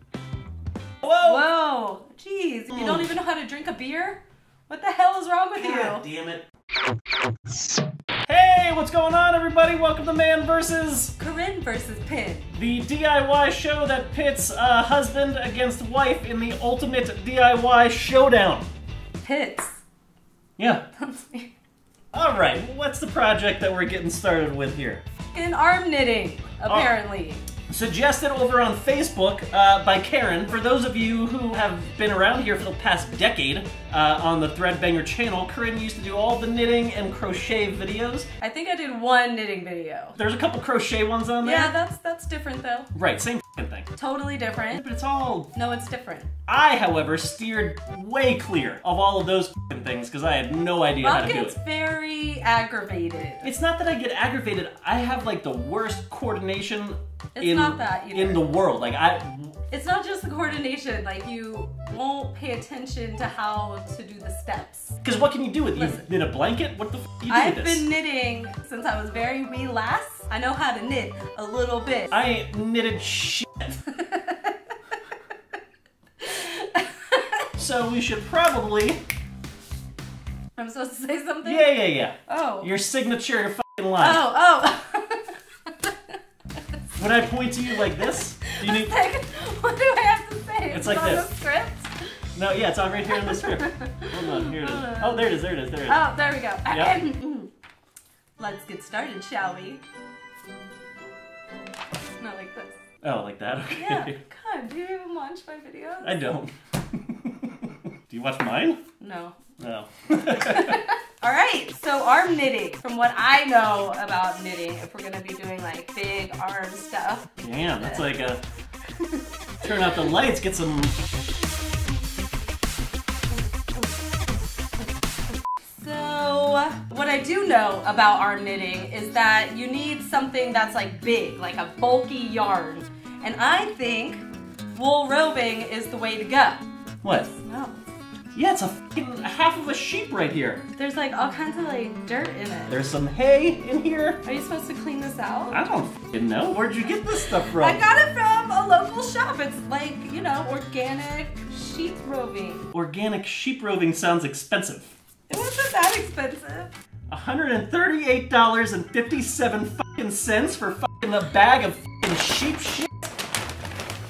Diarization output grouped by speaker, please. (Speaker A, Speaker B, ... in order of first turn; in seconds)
Speaker A: 1.0-6.0, 11.2-12.5, 19.2-19.8, 21.0-21.5, 25.3-27.4, 38.4-40.2, 41.4-42.9, 44.0-44.8, 45.5-46.3, 51.0-53.5, 57.4-58.5, 59.7-65.0, 65.8-66.1, 67.3-72.1, 73.8-74.7, 76.2-77.5, 80.6-82.7, 84.0-86.2, 87.7-92.1, 93.1-97.5, 98.4-99.8, 102.2-102.8, 103.7-106.3, 109.0-109.4, 110.3-118.2, 118.9-120.1, 123.3-123.9, 125.3-134.2, 134.8-136.6, 137.3-137.8, 140.8-142.9, 144.2-145.6, 147.0-152.7, 155.3-156.7
Speaker B: 2.7-3.1, 5.6-6.5, 8.3-11.1, 12.5-18.7, 20.6-20.9, 22.1-25.0, 26.7-26.9, 27.7-38.3, 40.1-41.7, 43.0-43.9, 44.7-45.5, 46.5-51.6, 53.4-59.6, 65.0-67.9, 72.1-73.7, 77.6-79.0, 81.4-84.2, 87.0-89.0, 90.7-91.3, 92.3-96.0, 96.7-97.0, 103.0-104.2, 106.0-108.8, 109.6-110.8, 117.4-118.4, 119.6-121.0, 137.0-137.3, 138.3-140.7, 142.7-144.2, 145.5-147.8, 152.7-154.9, 157.1-163.1